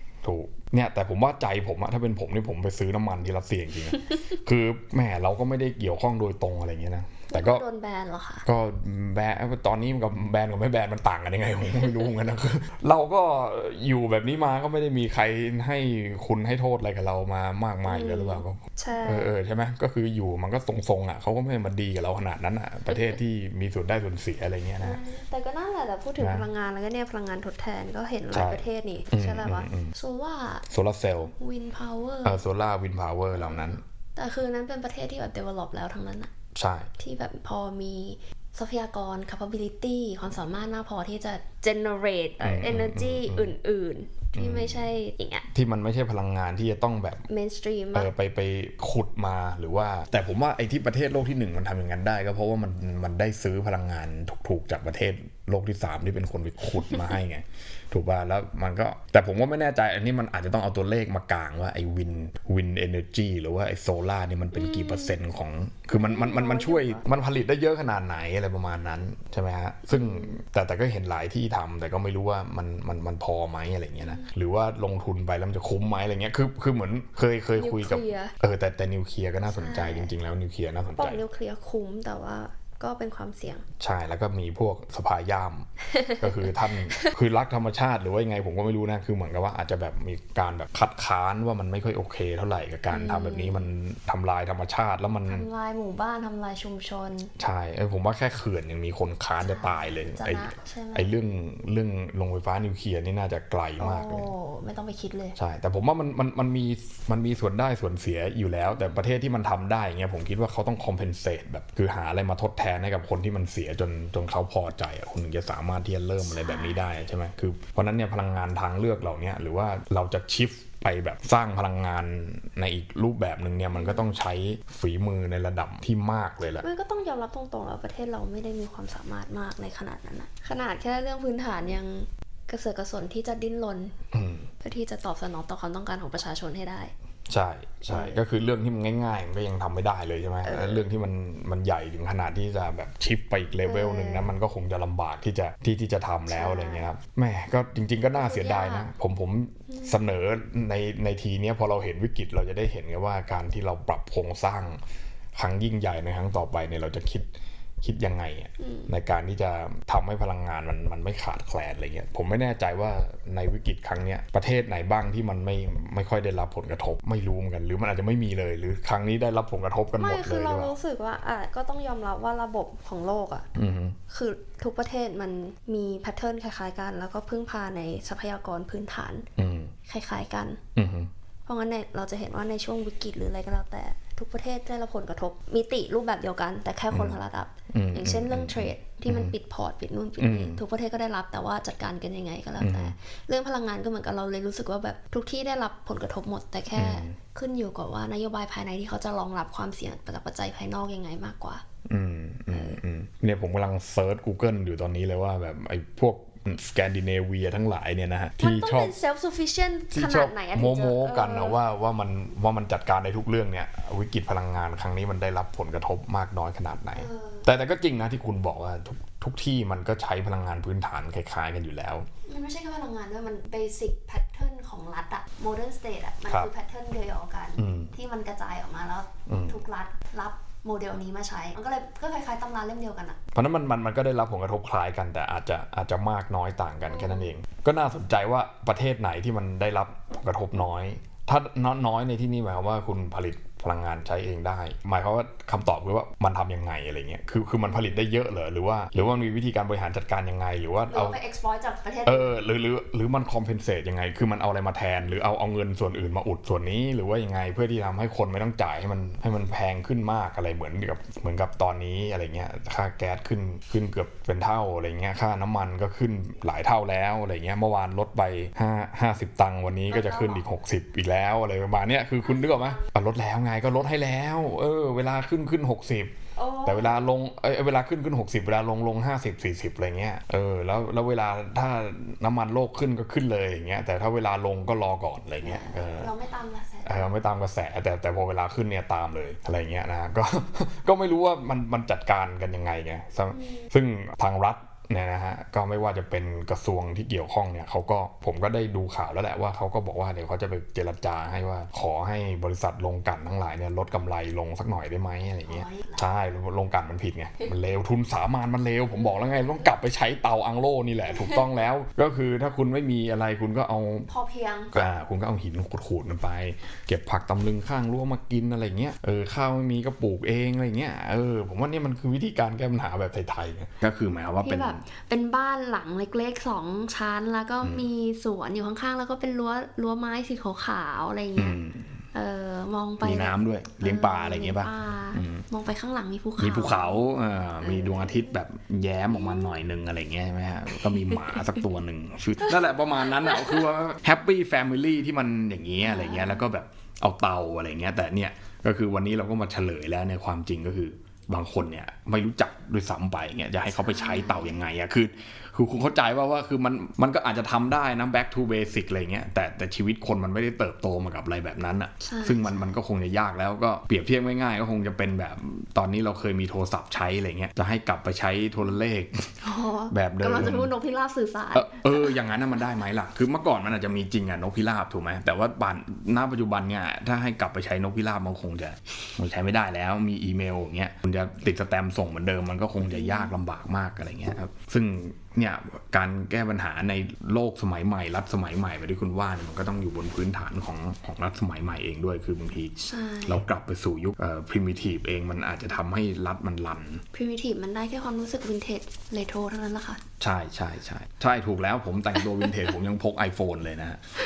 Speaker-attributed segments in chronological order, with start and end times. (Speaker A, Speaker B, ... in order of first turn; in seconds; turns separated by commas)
Speaker A: 0.2-7.6, Speaker B: 7.3-8.4, Speaker A: 8.4-25.0, Speaker B: 17.9-19.3, Speaker B: 24.8-30.6, Speaker A: 26.2-26.5, Speaker A: 28.3-29.9, Speaker A: 30.7-31.3, Speaker B: 31.2-32.4, Speaker A: 32.2-33.8, Speaker B: 33.3-36.3, Speaker A: 36.5-36.9, Speaker B: 37.0-45.5, Speaker A: 42.4-43.5, Speaker A: 44.4-44.9, Speaker A: 45.5-47.2, Speaker B: 47.3-48.1, Speaker A: 48.0-81.2, Speaker B: 64.5-65.2, Speaker B: 65.9-67.1, Speaker B: 69.9-70.4, Speaker B: 74.0-74.3, Speaker B: 77.5-78.3, Speaker B: 79.4-80.1, Speaker B: 81.0-83.6, Speaker A: 83.8-85.7, Speaker B: 85.9-87.1, Speaker A: 86.2-95.5, Speaker B: 92.9-93.7, Speaker B: 95.3-97.3, Speaker A: 97.4-104.3, Speaker B: 99.4-101.2, Speaker B: 103.8-105.4, Speaker A: 105.4-126.6, Speaker B: 116.2-116.8, Speaker B: 123.7-124.1, Speaker B: 126.6-134.0, Speaker A: 134.1-134.5, Speaker B: 134.6-136.9, Speaker A: 137.3-154.8, Speaker B: 137.9-138.2, Speaker B: 140.4-140.9, Speaker B: 143.6-144.3, Speaker B: 146.3-146.9, Speaker B: 148.1-148.9, Speaker B: 149.7-150.0, Speaker A: 155.3-157.3, Speaker A: 157.8-170.7, Speaker B: 158.6-158.9, Speaker B: 170.0-173.5, Speaker A: 173.5-174.0, Speaker B: 174.1-179.3, Speaker A: 179.4-179.7, Speaker B: 179.9-180.6, Speaker A: 180.8-181.1, Speaker B: 181.5-201.6, Speaker A: 186.9-187.2, Speaker A: 187.7-189.3, Speaker A: 190.2-190.6, Speaker A: 192.6-192.9, Speaker A: 196.7-197.2, Speaker A: 201.9-208.9, Speaker B: 202.5-202.8, Speaker B: 208.4-211.6, Speaker A: 209.9-222.1, Speaker B: 216.9-217.4, Speaker B: 222.3-233.2, Speaker A: 227.6-227.9, Speaker A: 229.3-229.6, Speaker A: 233.3-251.2, Speaker B: 236.9-237.3, Speaker B: 250.9-252.4, Speaker A: 252.1-276.1, Speaker B: 269.9-270.4, Speaker B: 272.2-272.9, Speaker B: 276.4-277.1, Speaker A: 276.6-286.1, Speaker B: 285.4-287.1, Speaker A: 286.9-314.1, Speaker B: 293.3-293.6, Speaker B: 305.4-306.1, Speaker B: 314.1-314.7, Speaker A: 314.7-324.8, Speaker B: 324.4-331.6, Speaker A: 327.6-327.9, Speaker A: 331.4-332.0, Speaker B: 332.1-337.0, Speaker A: 333.0-335.4, Speaker A: 336.4-369.3, Speaker B: 337.6-338.3, Speaker B: 339.1-339.6, Speaker B: 340.8-341.6, Speaker B: 343.2-343.6, Speaker B: 345.8-346.4, Speaker B: 353.6-354.6, Speaker B: 362.0-362.7, Speaker B: 369.4-372.1, Speaker A: 369.9-370.7, Speaker A: 371.5-397.0, Speaker B: 382.9-383.3, Speaker B: 392.9-393.4, Speaker B: 397.1-400.0, Speaker A: 400.2-404.0, Speaker B: 402.1-402.7